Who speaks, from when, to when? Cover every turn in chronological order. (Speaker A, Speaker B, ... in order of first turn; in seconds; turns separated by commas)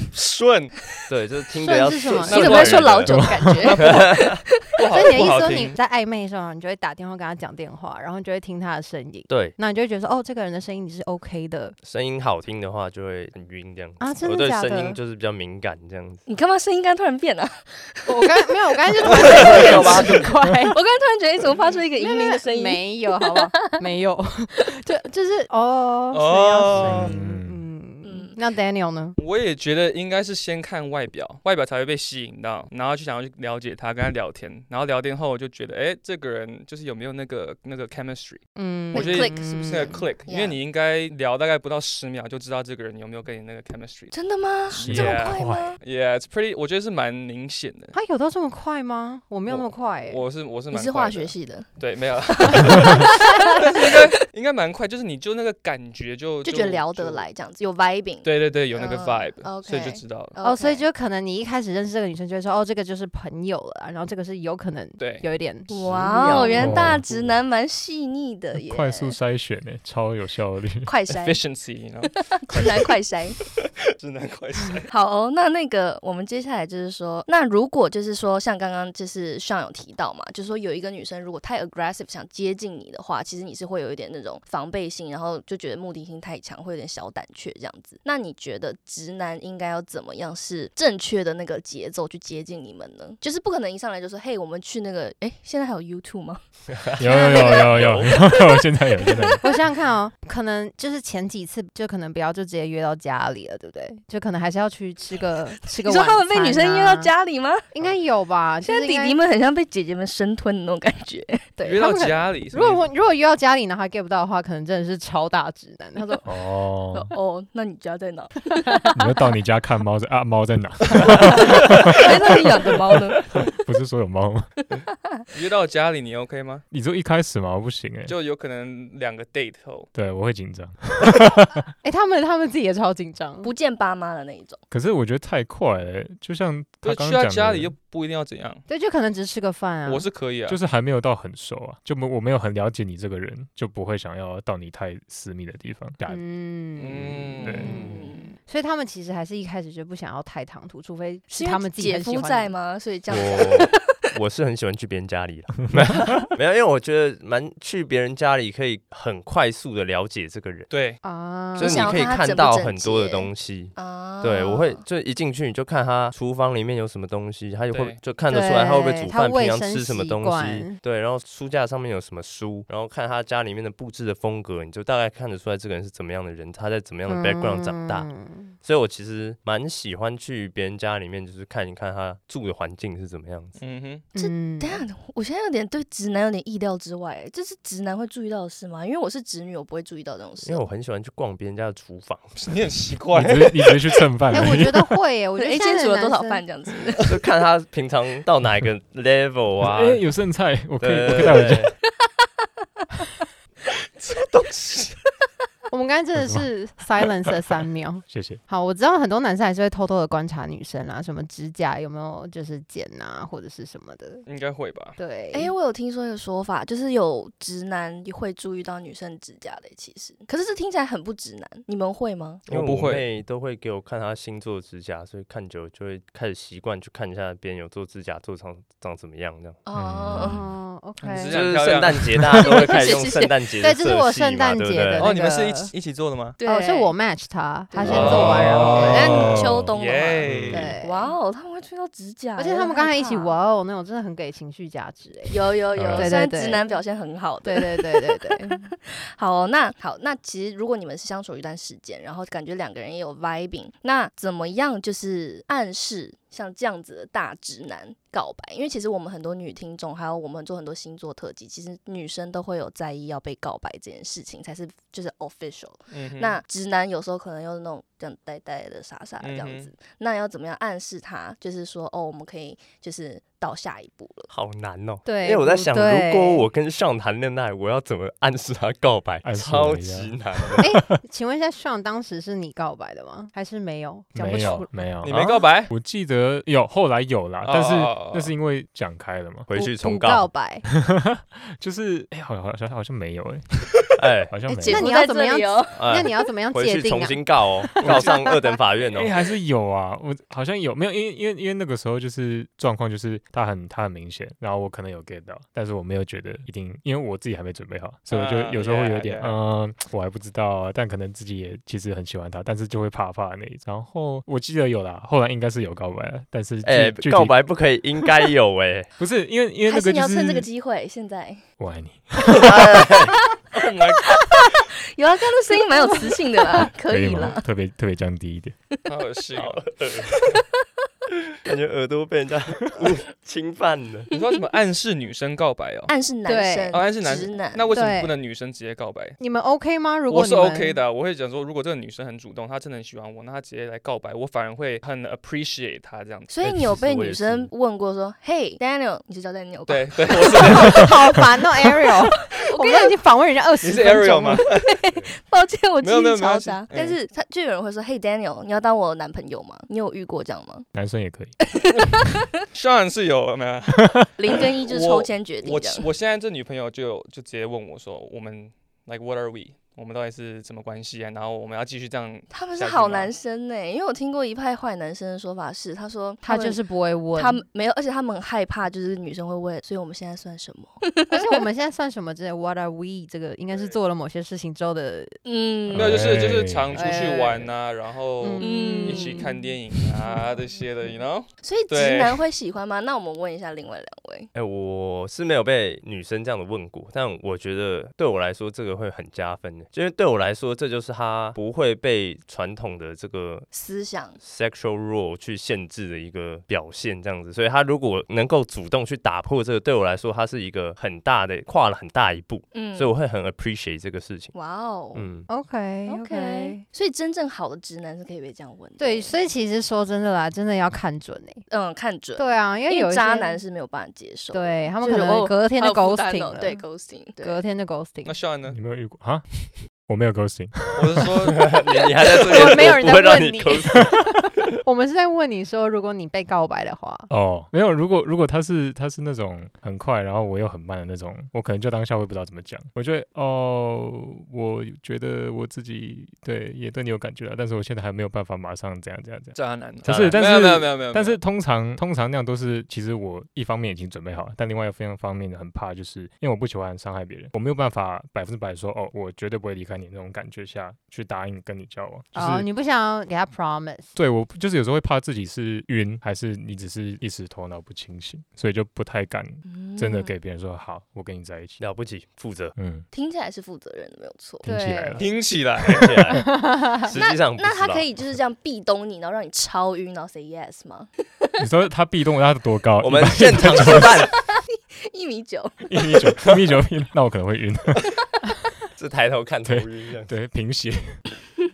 Speaker A: 0.1-0.9, Speaker B: 1.1-4.4, Speaker C: 1.6-2.4, Speaker D: 2.3-5.2, Speaker A: 2.3-3.1, Speaker E: 3.0-3.5, Speaker A: 3.6-5.7, Speaker C: 4.9-11.8, Speaker B: 9.3-9.5, Speaker B: 11.8-16.2, Speaker C: 14.0-15.0, Speaker D: 16.2-18.5, Speaker C: 18.1-20.8, Speaker D: 19.1-20.1, Speaker B: 19.2-20.2, Speaker D: 20.7-23.8, Speaker C: 21.9-29.1, Speaker A: 26.1-27.1, Speaker E: 26.7-27.6, Speaker D: 28.0-28.4, Speaker A: 29.2-44.1, Speaker C: 38.5-40.0, Speaker D: 38.9-40.6, Speaker D: 44.1-45.8, Speaker A: 44.7-47.9, Speaker E: 44.8-45.8, Speaker C: 47.9-50.2, Speaker A: 49.5-57.3, Speaker D: 50.7-54.0, Speaker D: 56.4-60.8, Speaker A: 58.2-60.4, Speaker C: 60.4-65.8, Speaker A: 65.0-65.2, Speaker D: 65.7-69.1, Speaker B: 65.8-67.4, Speaker C: 66.3-66.5, Speaker E: 66.5-67.0, Speaker E: 68.6-70.9, Speaker D: 70.8-71.4, Speaker A: 71.1-72.2, Speaker D: 72.1-73.4, Speaker A: 73.9-74.9, Speaker D: 74.9-96.4, Speaker B: 96.7-98.2, Speaker D: 97.0-99.4, Speaker E: 97.0-99.4, Speaker C: 99.4-107.1, Speaker D: 105.8-107.7, Speaker C: 107.7-109.2, Speaker D: 108.6-111.5, Speaker C: 111.6-116.2, Speaker A: 111.6-112.8, Speaker E: 116.2-117.1, Speaker D: 116.9-118.9, Speaker E: 118.9-124.6, Speaker D: 121.5-123.4, Speaker A: 125.3-126.6, Speaker E: 126.7-128.1, Speaker A: 128.1-129.9, Speaker E: 129.9-131.6, Speaker C: 131.8-133.5, Speaker D: 133.4-134.6, Speaker E: 134.7-137.7, Speaker A: 136.8-138.6, Speaker C: 138.7-140.1, Speaker A: 139.8-140.6, Speaker E: 140.5-146.2, Speaker C: 146.1-152.5, Speaker A: 146.8-147.8, Speaker E: 147.0-147.9, Speaker D: 147.6-148.3, Speaker D: 151.3-154.1, Speaker B: 153.1-160.7, Speaker A: 160.7-161.0, Speaker C: 161.0-162.1, Speaker D: 161.6-164.8, Speaker B: 161.6-183.6, Speaker A: 167.7-168.0, Speaker C: 168.3-170.8, Speaker C: 177.1-178.5, Speaker A: 183.6-184.1, Speaker C: 184.1-184.8, Speaker D: 184.1-190.7, Speaker B: 190.4-192.4, Speaker A: 192.4-194.0, Speaker E: 193.1-194.9, Speaker C: 194.3-196.4, Speaker D: 195.4-197.1, Speaker B: 197.0-200.0, Speaker E: 199.6-201.7, Speaker B: 200.8-201.7, Speaker A: 204.0-204.9, Speaker C: 205.7-214.2, Speaker E: 206.2-206.4, Speaker E: 208.1-208.4, Speaker A: 214.2-215.0, Speaker C: 215.0-215.5, Speaker D: 215.3-222.4, Speaker A: 222.5-223.1, Speaker B: 222.5-229.6, Speaker D: 229.6-230.4, Speaker E: 229.7-230.4, Speaker C: 230.1-231.4, Speaker A: 231.0-232.2, Speaker B: 231.3-235.1, Speaker D: 232.4-233.4, Speaker C: 233.6-235.7, Speaker A: 235.0-236.4, Speaker D: 236.4-236.9, Speaker C: 236.4-239.3, Speaker D: 237.7-243.3, Speaker A: 237.8-240.6, Speaker E: 238.0-239.7, Speaker E: 240.3-240.6, Speaker C: 240.5-241.1, Speaker C: 242.4-246.7, Speaker D: 245.3-274.3, Speaker E: 245.7-246.1, Speaker C: 247.4-248.7, Speaker A: 265.9-266.4, Speaker A: 269.2-269.7, Speaker B: 274.3-280.7, Speaker C: 275.0-276.5, Speaker E: 279.2-280.8, Speaker C: 280.6-284.8, Speaker E: 284.1-289.5, Speaker A: 285.0-285.7, Speaker A: 287.4-288.3, Speaker B: 289.5-290.3, Speaker C: 289.5-290.6, Speaker E: 290.7-293.7, Speaker B: 294.0-294.4, Speaker E: 294.3-294.9, Speaker D: 294.5-295.8, Speaker C: 294.5-298.3, Speaker B: 295.8-299.2, Speaker E: 297.8-298.3, Speaker E: 298.9-317.4, Speaker A: 308.1-309.4, Speaker B: 316.6-318.9, Speaker E: 319.0-320.5, Speaker D: 319.7-321.4, Speaker E: 321.6-322.8, Speaker B: 322.4-323.1, Speaker A: 323.5-324.1, Speaker D: 324.1-327.4, Speaker E: 326.9-328.6, Speaker A: 328.9-329.6, Speaker B: 329.3-330.1, Speaker B: 331.4-334.1, Speaker A: 334.1-335.9, Speaker D: 335.9-337.7, Speaker C: 336.2-336.8, Speaker A: 336.7-339.2, Speaker C: 337.7-338.1, Speaker C: 339.2-340.8, Speaker A: 340.1-346.3, Speaker D: 346.3-350.9, Speaker B: 346.4-347.5, Speaker A: 349.7-350.9, Speaker C: 350.6-354.4, Speaker D: 352.3-353.0, Speaker A: 353.6-354.7, Speaker D: 354.5-360.7, Speaker A: 355.8-356.9, Speaker E: 360.7-361.4, Speaker D: 361.6-362.2, Speaker A: 362.5-373.1, Speaker D: 364.2-365.9, Speaker D: 372.3-376.6, Speaker C: 376.2-377.4, Speaker D: 377.1-381.4, Speaker C: 381.1-385.2, Speaker A: 383.5-383.8, Speaker D: 385.2-386.0, Speaker E: 385.7-386.8, Speaker A: 385.7-392.2, Speaker C: 386.7-387.5, Speaker C: 388.2-389.3, Speaker D: 388.4-389.4, Speaker D: 391.4-394.3, Speaker B: 394.3-403.5, Speaker D: 403.5-404.2, Speaker B: 404.2-414.3, Speaker D: 412.5-412.9, Speaker D: 414.3-415.1, Speaker B: 414.9-415.3, Speaker C: 415.3-416.6, Speaker D: 415.9-419.1, Speaker C: 418.8-421.4, Speaker D: 421.5-427.4, Speaker C: 422.1-423.4, Speaker C: 424.3-426.6, Speaker C: 427.2-428.2, Speaker A: 428.0-428.6, Speaker E: 428.5-429.2, Speaker E: 429.9-431.1, Speaker A: 430.7-431.5, Speaker B: 431.3-433.9, Speaker C: 432.2-437.1, Speaker E: 437.1-462.5, Speaker A: 449.3-451.2, Speaker B: 449.8-450.2, Speaker C: 462.1-463.9, Speaker E: 463.9-471.6, Speaker D: 469.4-470.1, Speaker B: 471.6-472.5, Speaker E: 472.5-472.9, Speaker D: 472.9-474.4, Speaker E: 474.4-475.1, Speaker C: 474.4-475.0, Speaker A: 475.0-476.1, Speaker B: 475.7-477.9, Speaker C: 476.3-476.8, Speaker D: 476.8-480.9, Speaker E: 481.4-484.0, Speaker B: 482.8-484.1, Speaker D: 484.8-485.8, Speaker E: 485.7-487.9, Speaker B: 488.8-490.1, Speaker E: 489.4-491.0